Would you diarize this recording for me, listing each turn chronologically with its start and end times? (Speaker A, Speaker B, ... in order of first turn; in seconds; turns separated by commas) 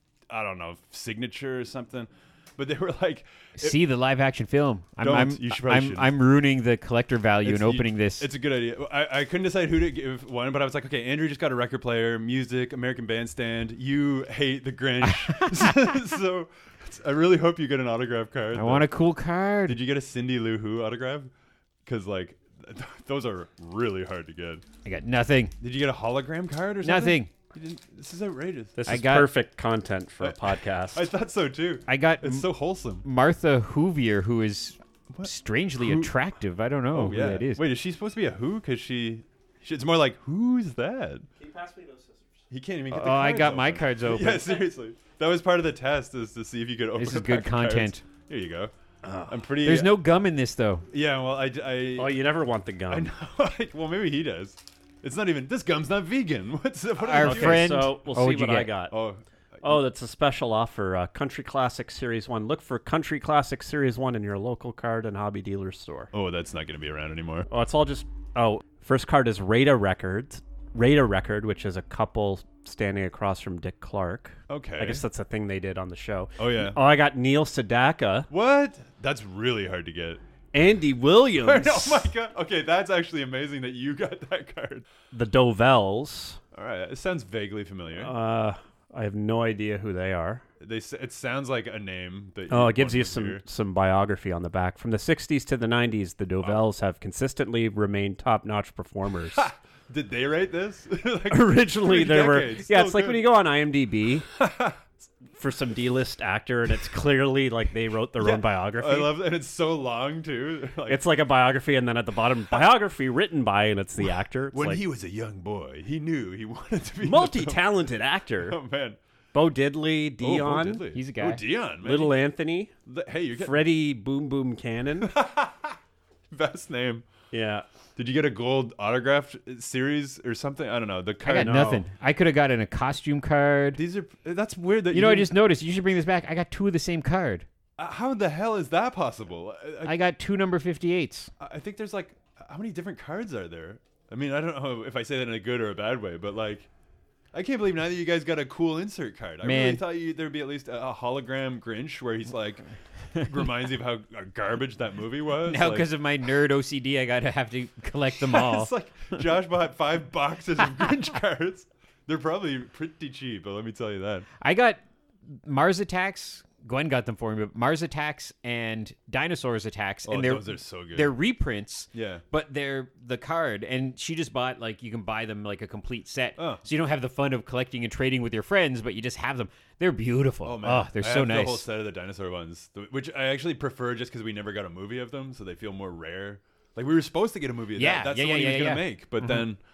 Speaker A: 0.3-3.8, Speaker B: 3.6-8.3, Speaker A: 5.0-6.1, Speaker A: 7.4-18.9, Speaker B: 15.2-15.7, Speaker B: 18.5-19.8, Speaker A: 19.7-21.3, Speaker A: 21.9-24.6, Speaker B: 24.8-25.5, Speaker A: 25.6-28.9, Speaker B: 26.8-27.3, Speaker C: 28.8-31.1, Speaker B: 28.9-29.3, Speaker A: 30.2-33.0, Speaker B: 31.9-32.5, Speaker B: 33.0-37.6, Speaker A: 35.1-36.1, Speaker A: 36.9-41.3, Speaker C: 41.4-42.4, Speaker A: 42.5-48.7, Speaker B: 42.9-44.6, Speaker B: 47.0-48.0, Speaker C: 49.0-49.4, Speaker A: 49.3-50.0, Speaker B: 49.6-50.9, Speaker A: 50.9-52.2, Speaker C: 52.0-53.1, Speaker A: 52.9-57.8, Speaker B: 57.0-58.7, Speaker C: 57.1-58.9, Speaker A: 58.9-59.7, Speaker C: 59.6-66.1, Speaker A: 66.1-67.5, Speaker C: 67.5-78.3, Speaker A: 74.5-75.0, Speaker A: 76.4-76.8, Speaker A: 78.3-80.2, Speaker C: 80.5-82.1, Speaker A: 81.4-84.8, Speaker C: 85.1-86.4, Speaker A: 86.5-88.1, Speaker C: 88.0-90.4, Speaker A: 90.6-93.4, Speaker C: 92.5-99.5, Speaker A: 99.3-103.3, Speaker C: 101.3-104.3, Speaker A: 104.3-104.8, Speaker C: 105.4-109.1, Speaker A: 108.2-111.1, Speaker C: 110.9-114.8, Speaker A: 114.5-117.8, Speaker C: 117.0-118.6, Speaker A: 118.4-119.0, Speaker C: 119.3-120.8, Speaker A: 120.2-122.1, Speaker B: 120.9-121.4, Speaker C: 121.8-122.7, Speaker A: 122.9-123.7, Speaker C: 123.3-125.1, Speaker A: 125.0-125.8, Speaker A: 126.3-127.0, Speaker C: 127.3-127.7, Speaker A: 128.0-131.8, Speaker B: 131.2-133.8, Speaker C: 131.4-131.8, Speaker A: 133.8-135.3, Speaker B: 134.9-137.4, Speaker A: 137.8-139.9, Speaker B: 139.8-141.3, Speaker A: 141.4-146.7, Speaker A: 147.3-155.9, Speaker B: 149.4-149.8, Speaker B: 155.4-159.2, Speaker A: 158.2-164.3, Speaker B: 164.4-164.8, Speaker B: 165.4-181.6, Speaker A: 170.1-171.1, Speaker A: 171.9-172.2, Speaker A: 176.4-176.6, Speaker A: 180.4-189.6, Speaker B: 187.8-189.4